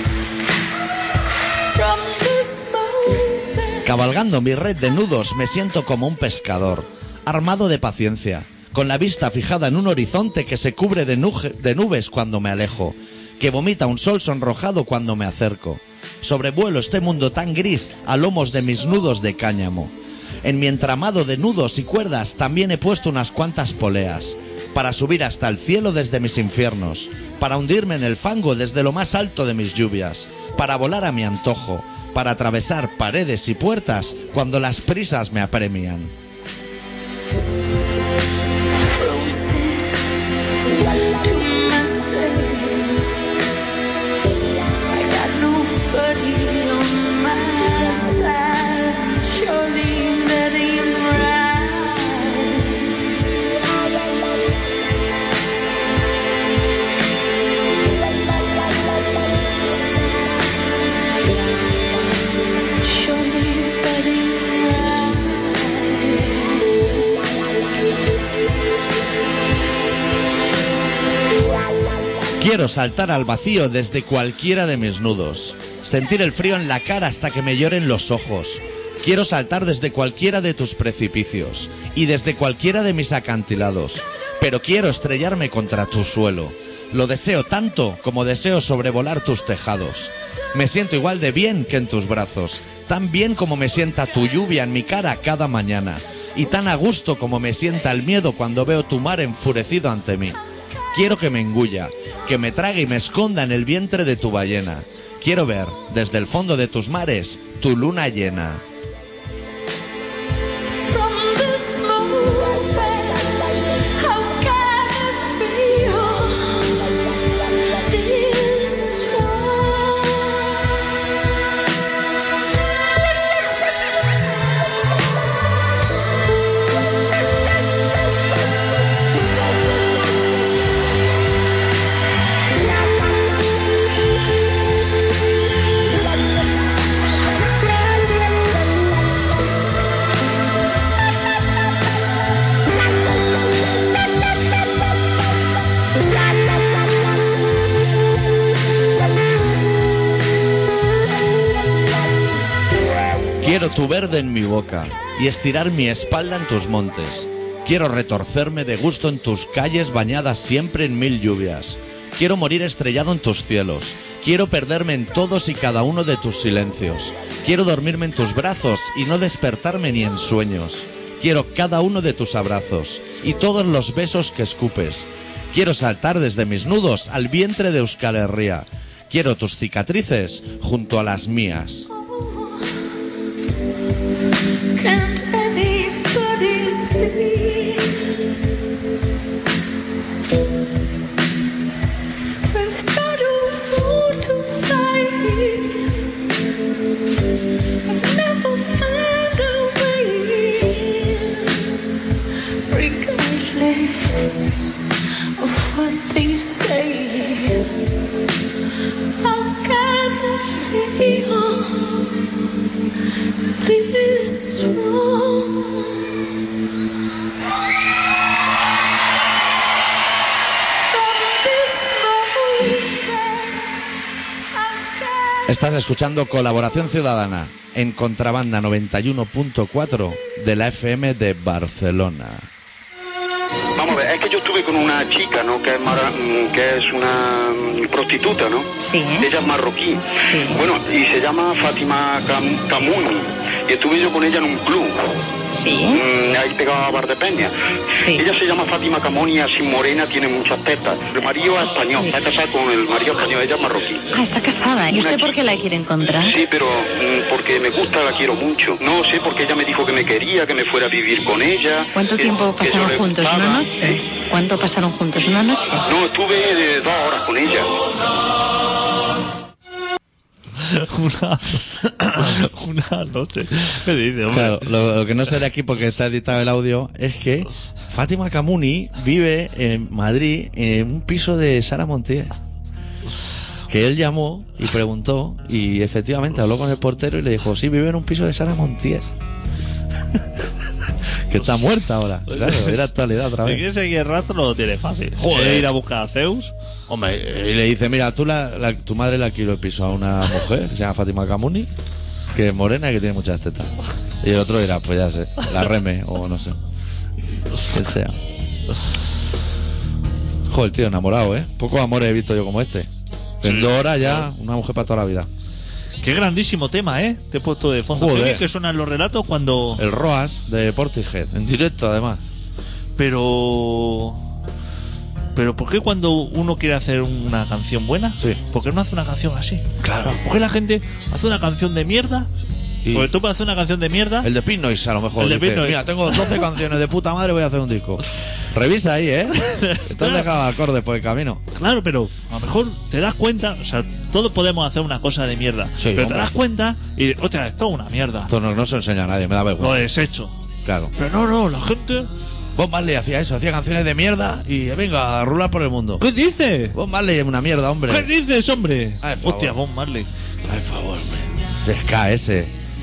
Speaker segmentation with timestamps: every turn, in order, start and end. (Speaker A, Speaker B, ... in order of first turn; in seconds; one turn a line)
Speaker A: 1.7-3.9
Speaker B: 3.8-36.1
Speaker A: 38.7-40.2
Speaker A: 40.8-43.1
Speaker A: 44.9-53.0
Speaker A: 62.8-66.9
Speaker B: 72.4-100.4
Speaker B: 100.9-108.6
Speaker A: 110.9-117.0
Speaker A: 117.7-120.6
Speaker B: 153.4-181.9
Speaker A: 181.9-182.9
Speaker A: 184.7-188.1
Speaker A: 192.5-196.1
Speaker A: 197.8-201.7
Speaker A: 202.7-207.8
Speaker A: 209.2-212.2
Speaker A: 213.6-216.0
Speaker A: 220.9-223.8
Speaker A: 224.5-225.5
Speaker B: 225.5-232.5
Speaker C: 233.8-245.0
Speaker D: 238.8-239.3
Speaker D: 240.3-240.6
Speaker D: 245.6-246.0
Speaker C: 245.9-247.5
Speaker C: 248.1-254.1
Speaker D: 254.1-256.3
Speaker C: 254.9-255.3
Speaker C: 256.2-264.0
Speaker D: 261.9-265.8
Speaker C: 265.9-267.8
Speaker E: 270.6-274.7
Speaker B: 274.3-282.3
Speaker B: 283.7-289.1
Speaker B: 291.3-293.6
Speaker E: 292.3-292.8
Speaker E: 293.4-296.5
Speaker B: 295.1-295.7
Speaker B: 296.9-301.7
Speaker B: 302.3-306.6
Speaker B: 307.6-308.2
Speaker B: 310.5-312.9
Speaker B: 313.4-315.3
Speaker E: 313.4-314.3
Speaker E: 316.0-319.8
Speaker B: 317.9-318.4
Speaker B: 319.8-322.2
Speaker E: 323.0-324.2
Speaker E: 325.3-332.3
Speaker B: 329.8-330.2
Speaker B: 332.8-333.1
Speaker E: 332.9-334.3
Speaker B: 334.2-341.4
Speaker E: 335.2-336.4
Speaker E: 339.3-340.3
Speaker E: 341.5-348.3
Speaker B: 345.8-346.3
Speaker B: 348.3-349.9
Speaker E: 349.6-350.3
Speaker B: 350.6-350.9
Speaker E: 350.9-352.1
Speaker B: 352.5-356.0
Speaker E: 356.0-356.8
Speaker B: 356.7-358.1
Speaker E: 357.9-360.1
Speaker B: 359.0-359.6
Speaker B: 360.5-362.5